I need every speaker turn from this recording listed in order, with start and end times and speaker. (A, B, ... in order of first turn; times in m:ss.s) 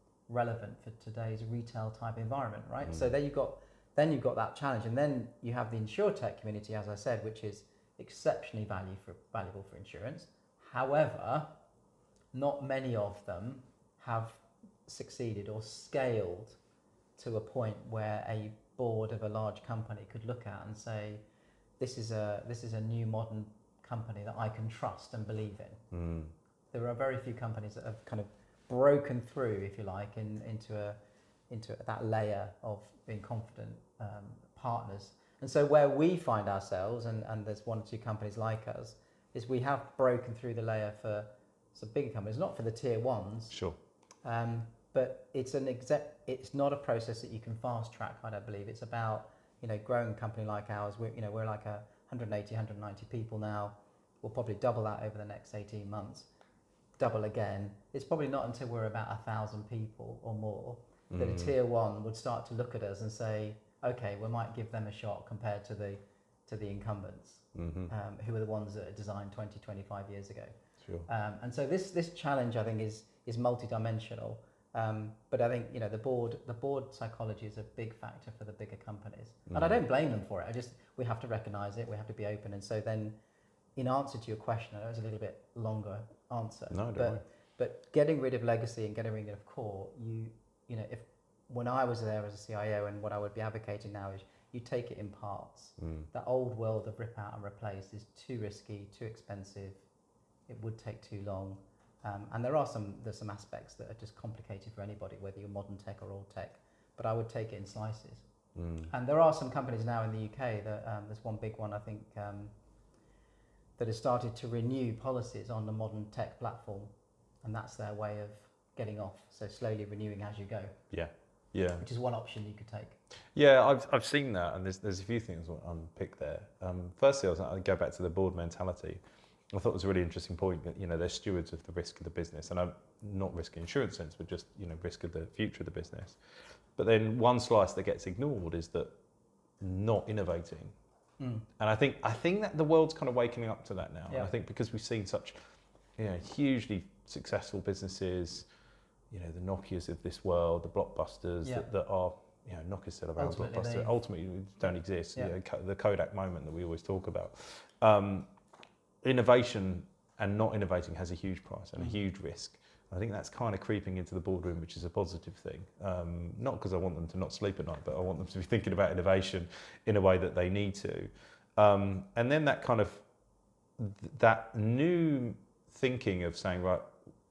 0:00.3-0:11.5 A
0:12.3-0:16.6 A
0:17.2-0:21.2 A
0:21.8-0:25.8 A
0:25.9-0:26.3 B
0:26.7-0:31.0 A
0:31.5-0:43.6 A
0:43.5-0:43.8 B
0:44.2-0:56.3 A
0:57.0-1:10.5 A
1:01.1-1:01.5 B
1:07.6-1:07.9 B
1:11.1-1:23.2 A
1:23.8-1:39.8 A
1:26.7-1:27.2 B
1:35.8-1:36.1 B
1:40.5-1:48.3 A
1:48.6-1:48.9 B
1:48.9-1:52.5 A
1:53.8-1:56.9 A
1:57.4-2:00.8 A
2:00.9-2:01.8 B
2:01.8-2:03.0 A
2:03.4-2:09.0 B
2:09.5-2:16.2 B
2:16.8-2:18.9 B
2:19.6-2:20.7 B
2:21.2-2:21.5 A
2:21.6-2:25.4 B
2:26.0-2:28.5 B
2:29.1-2:38.3 B
2:31.4-2:31.7 A
2:33.2-2:34.0 A
2:39.0-2:53.0 B
2:53.8-2:56.9 B